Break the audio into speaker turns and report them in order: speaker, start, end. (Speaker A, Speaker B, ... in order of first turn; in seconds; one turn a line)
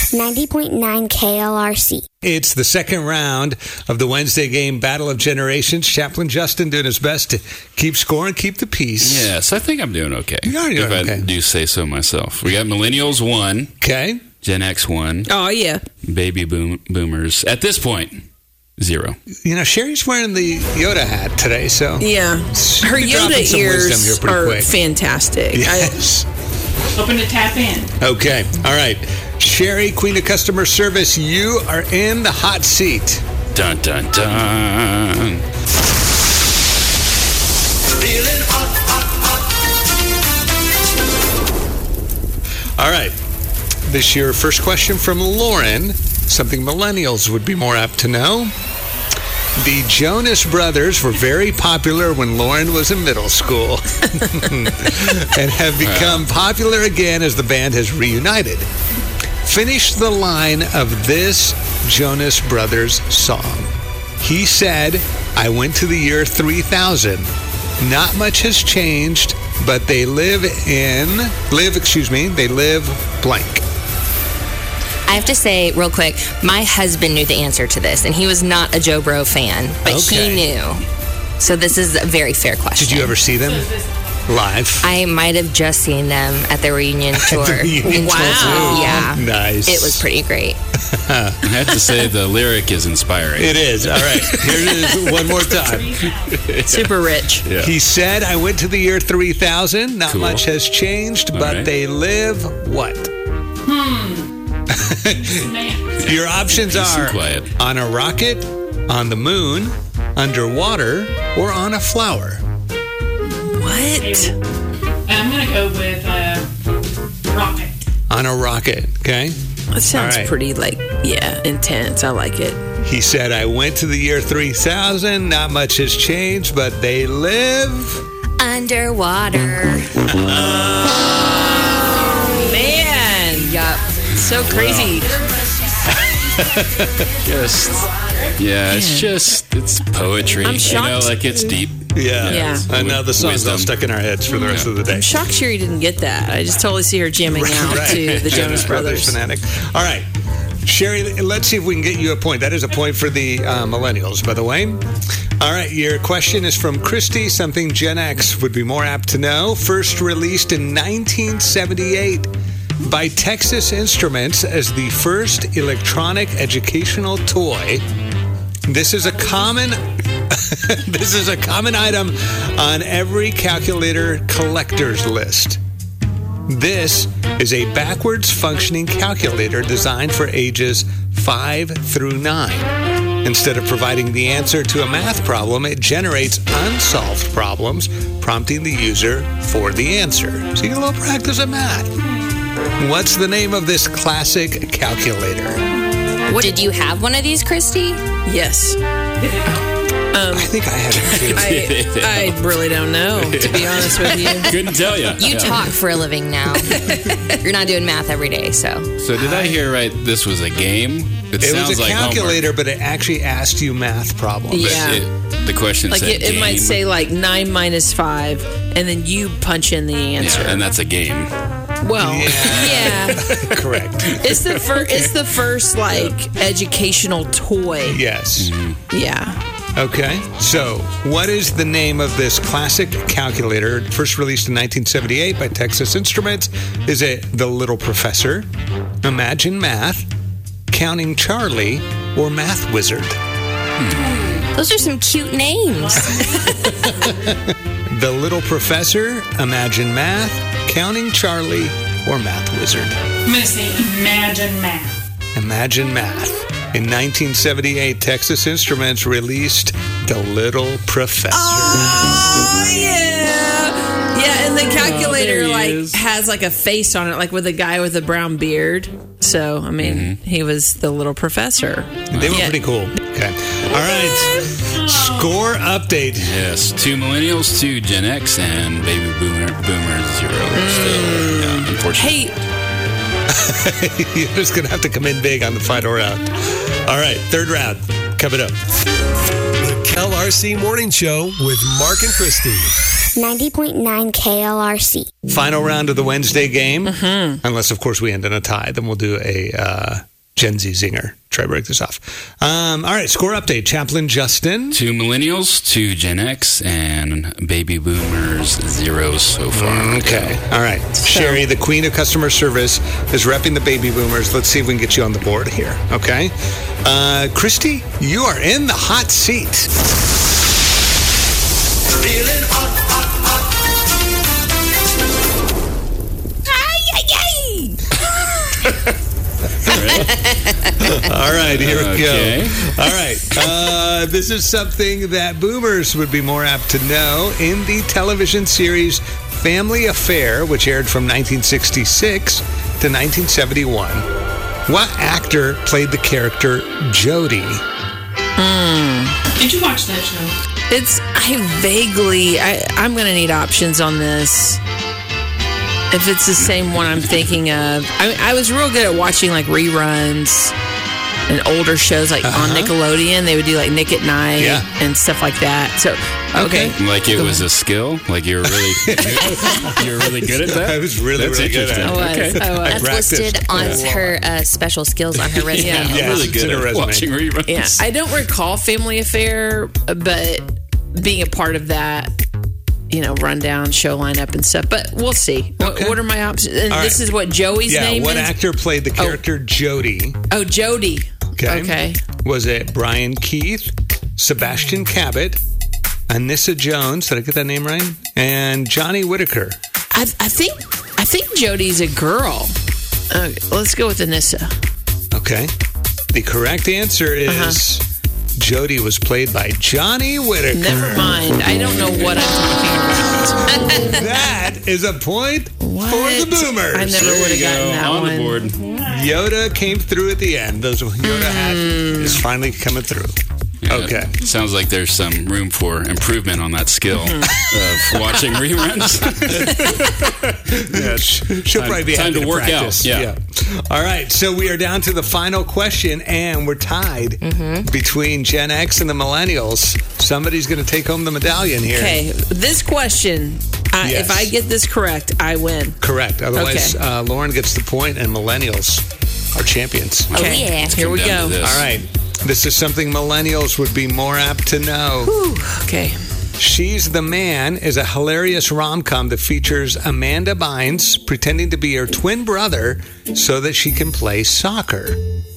Speaker A: 0.1-2.0
Speaker B: 2.2-9.3
Speaker C: 9.0-13.7
Speaker B: 10.4-11.3
Speaker B: 13.8-14.2
Speaker C: 14.4-15.3
Speaker D: 15.3-15.8
Speaker C: 16.0-18.2
Speaker C: 18.8-19.1
Speaker B: 19.4-24.7
Speaker D: 22.0-26.0
Speaker B: 25.5-26.2
Speaker E: 27.0-27.9
Speaker B: 28.0-33.2
Speaker C: 33.5-35.4
Speaker B: 42.8-43.1
Speaker B: 43.9-48.5
Speaker B: 49.6-58.7
Speaker C: 55.8-56.2
Speaker B: 59.4-73.6
Speaker F: 75.1-80.8
Speaker B: 79.8-80.5
Speaker F: 81.4-83.2
Speaker B: 82.8-83.7
Speaker E: 83.3-84.4
Speaker B: 84.2-84.9
Speaker F: 84.8-90.6
Speaker B: 87.2-90.0
Speaker D: 87.8-89.1
Speaker B: 90.9-91.5
Speaker C: 91.4-94.4
Speaker B: 93.4-96.1
Speaker D: 94.5-94.8
Speaker E: 95.5-96.3
Speaker C: 96.2-97.7
Speaker D: 96.7-97.5
Speaker B: 97.6-103.1
Speaker C: 100.1-100.4
Speaker C: 101.3-101.7
Speaker E: 103.7-104.3
Speaker B: 104.7-105.5
Speaker E: 105.2-106.0
Speaker C: 106.0-107.5
Speaker B: 106.0-112.4
Speaker D: 113.4-114.3
Speaker E: 114.0-114.3
Speaker E: 115.1-116.5
Speaker E: 117.2-117.8
Speaker B: 118.1-119.4
Speaker D: 119.7-122.6
Speaker B: 119.9-120.3
Speaker B: 122.8-128.0
Speaker F: 128.4-129.9
Speaker B: 130.1-131.2
Speaker D: 132.3-133.6
Speaker F: 133.3-133.9
Speaker D: 134.1-135.1
Speaker C: 134.3-135.0
Speaker B: 136.3-137.0
Speaker C: 137.2-143.8
Speaker D: 138.7-139.2
Speaker D: 140.4-141.5
Speaker B: 141.9-145.2
Speaker D: 142.2-142.7
Speaker C: 144.3-144.7
Speaker D: 144.9-149.2
Speaker B: 147.3-150.1
Speaker C: 147.7-148.7
Speaker B: 150.6-154.8
Speaker B: 155.4-162.3
Speaker B: 162.8-167.8
Speaker B: 168.7-175.6
Speaker B: 176.5-182.7
Speaker B: 183.2-191.9
Speaker B: 192.8-195.6
Speaker F: 196.3-198.0
Speaker D: 198.2-198.8
Speaker D: 200.1-204.6
Speaker B: 200.3-201.5
Speaker C: 200.9-202.4
Speaker C: 203.2-205.7
Speaker F: 205.2-208.9
Speaker D: 206.6-207.3
Speaker C: 209.0-212.5
Speaker B: 209.2-209.6
Speaker B: 211.4-214.9
Speaker D: 214.5-215.1
Speaker C: 214.5-216.8
Speaker D: 215.9-220.6
Speaker C: 220.2-221.3
Speaker D: 221.8-223.3
Speaker B: 222.0-224.2
Speaker C: 223.1-223.5
Speaker D: 224.2-228.0
Speaker B: 227.8-228.5
Speaker C: 228.4-228.8
Speaker D: 228.9-229.4
Speaker B: 229.8-238.5
Speaker B: 239.0-240.1
Speaker B: 240.7-243.2
Speaker C: 243.8-244.2
Speaker F: 244.5-246.5
Speaker E: 245.8-247.3
Speaker B: 246.0-253.0
Speaker E: 253.2-255.0
Speaker B: 255.3-262.1
Speaker D: 261.3-272.6
Speaker C: 264.6-266.0
Speaker C: 269.8-270.2
Speaker B: 272.1-276.4
Speaker C: 272.1-272.4
Speaker D: 273.7-274.7
Speaker C: 276.2-282.2
Speaker D: 280.5-282.4
Speaker B: 283.3-288.6
Speaker G: 289.6-292.8
Speaker A: 293.2-295.1
Speaker B: 295.3-304.8
Speaker D: 296.9-297.4
Speaker C: 304.7-310.4
Speaker B: 309.5-319.7
Speaker D: 311.0-311.4
Speaker D: 326.5-328.0
Speaker B: 329.6-330.1
Speaker C: 329.6-330.2
Speaker F: 329.9-330.7
Speaker B: 330.8-344.1
Speaker C: 331.4-332.7
Speaker B: 344.7-347.6
Speaker D: 348.4-349.2
Speaker E: 349.3-350.3
Speaker D: 350.7-354.6
Speaker D: 355.9-360.6
Speaker D: 361.3-367.4
Speaker B: 362.2-362.7
Speaker B: 364.4-364.7
Speaker B: 366.4-366.7
Speaker C: 366.8-372.5
Speaker B: 368.8-369.8
Speaker B: 370.5-374.2
Speaker D: 371.8-372.9
Speaker F: 372.6-376.3
Speaker C: 373.5-373.8
Speaker C: 375.5-377.8
Speaker D: 375.6-376.0
Speaker B: 375.6-377.1
Speaker D: 377.4-382.1
Speaker D: 382.9-388.4
Speaker B: 385.6-386.0
Speaker B: 386.7-387.0
Speaker B: 387.7-390.2
Speaker D: 388.9-389.2
Speaker D: 390.3-392.0
Speaker B: 391.4-395.4
Speaker B: 396.1-399.6
Speaker D: 399.9-402.6
Speaker D: 403.1-404.5
Speaker B: 405.1-405.5
Speaker B: 406.1-407.8
Speaker D: 407.3-407.6
Speaker B: 408.4-411.2
Speaker D: 410.5-414.0
Speaker B: 413.5-417.2
Speaker D: 415.6-418.5
Speaker C: 416.9-418.6
Speaker B: 418.8-424.2
Speaker D: 421.0-422.2
Speaker C: 423.6-433.1
Speaker D: 426.9-427.5
Speaker B: 430.5-442.0
Speaker F: 437.2-437.7
Speaker D: 441.7-445.8
Speaker B: 443.8-444.3
Speaker B: 445.8-450.1
Speaker D: 446.3-446.8
Speaker C: 450.1-451.7
Speaker F: 450.1-450.8
Speaker D: 450.1-451.4
Speaker B: 451.4-455.1
Speaker D: 455.0-456.0
Speaker B: 456.4-465.0